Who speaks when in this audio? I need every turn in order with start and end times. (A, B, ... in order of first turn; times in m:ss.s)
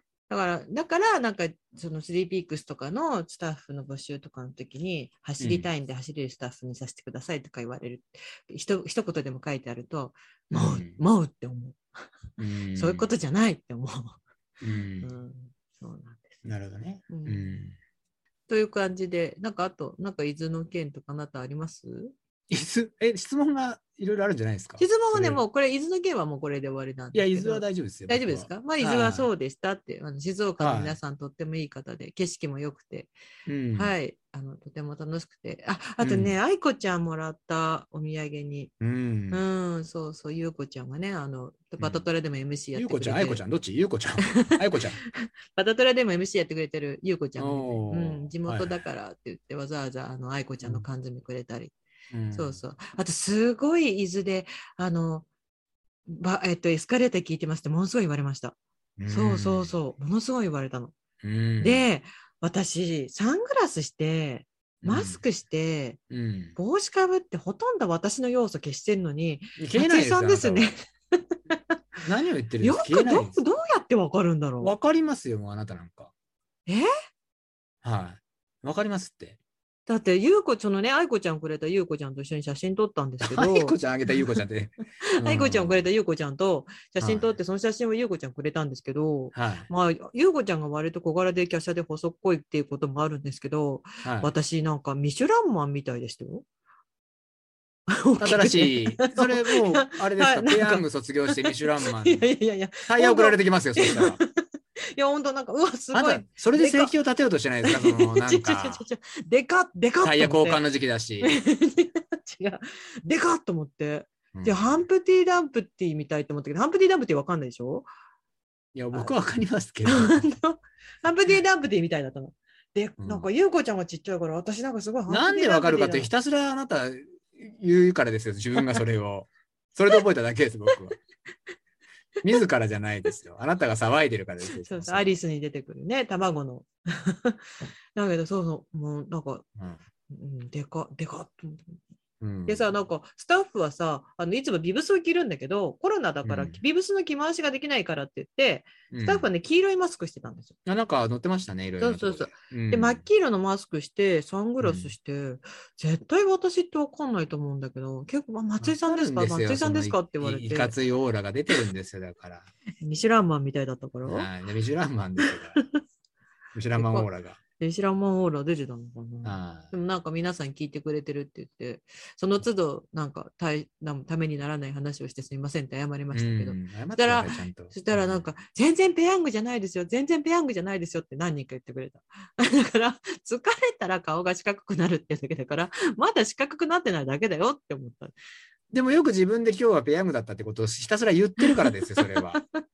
0:00.3-0:11.8 A
0:05.4-0:05.7 B
0:10.5-0:11.0 B
0:12.4-0:13.0 B
0:12.8-0:14.2 A
0:14.6-0:15.1 B
0:15.0-0:16.4 A
0:16.4-0:17.8 B
0:17.1-0:17.7 A
0:18.5-0:22.1 A
0:22.5-0:25.4 B
0:24.8-0:33.1 A
0:27.1-0:29.3 B
0:30.6-0:31.0 B
0:33.5-0:33.9 B
0:33.7-0:38.7 A
0:36.0-0:36.4 B
0:38.8-0:39.4 B
0:39.3-0:43.4 A
0:41.8-0:42.1 B
0:42.8-0:45.0 B
0:44.3-0:44.6 A
0:45.2-0:51.7 A
0:47.4-0:48.8 B
0:52.1-0:52.6 B
0:52.3-0:55.3 A
0:56.1-0:58.6 A
0:59.0-0:59.8 B
0:59.1-1:01.0 A
1:01.2-1:01.9 B
1:01.6-1:06.0 A
1:04.8-1:05.2 B
1:06.1-1:06.6 B
1:06.6-1:11.7 A
1:09.6-1:10.8 B
1:12.0-1:13.4 B
1:12.6-1:14.7 A
1:14.6-1:16.1 B
1:17.8-1:19.4 B
1:19.9-1:24.3 A
1:23.2-1:25.9 B
1:25.2-1:36.4 A
1:27.0-1:27.4 B
1:29.3-1:29.7 B
1:34.0-1:34.3 B
1:37.9-1:44.4 A
1:38.2-1:42.3 B
1:42.9-1:44.2 B
1:45.0-1:46.9 A
1:45.9-1:48.8 B
1:47.6-1:50.6 A
1:50.0-1:51.3 B
1:51.2-1:57.9 A
1:54.3-1:54.8 B
1:58.7-2:00.4 B
1:59.9-2:06.1 A
2:03.0-2:03.3 B
2:05.1-2:11.0 B
2:12.2-2:15.2 B
2:14.6-2:19.4 A
2:20.1-2:21.8 A
2:22.2-2:22.6 B
2:22.5-2:30.6 A
2:26.2-2:26.6 B
2:28.9-2:29.3 B
2:30.7-2:33.0 B
2:31.8-2:40.8 A
2:34.6-2:34.9 B
2:38.6-2:42.5 B
2:42.8-2:44.3 A
2:44.0-2:45.6 B
2:45.2-2:45.8 A
2:46.5-2:47.4 B
2:46.8-2:47.1 A
2:47.6-3:08.2 A
2:49.2-2:49.7 B
2:56.1-2:58.3 B
3:08.7-3:12.4 B
3:11.4-3:12.6 A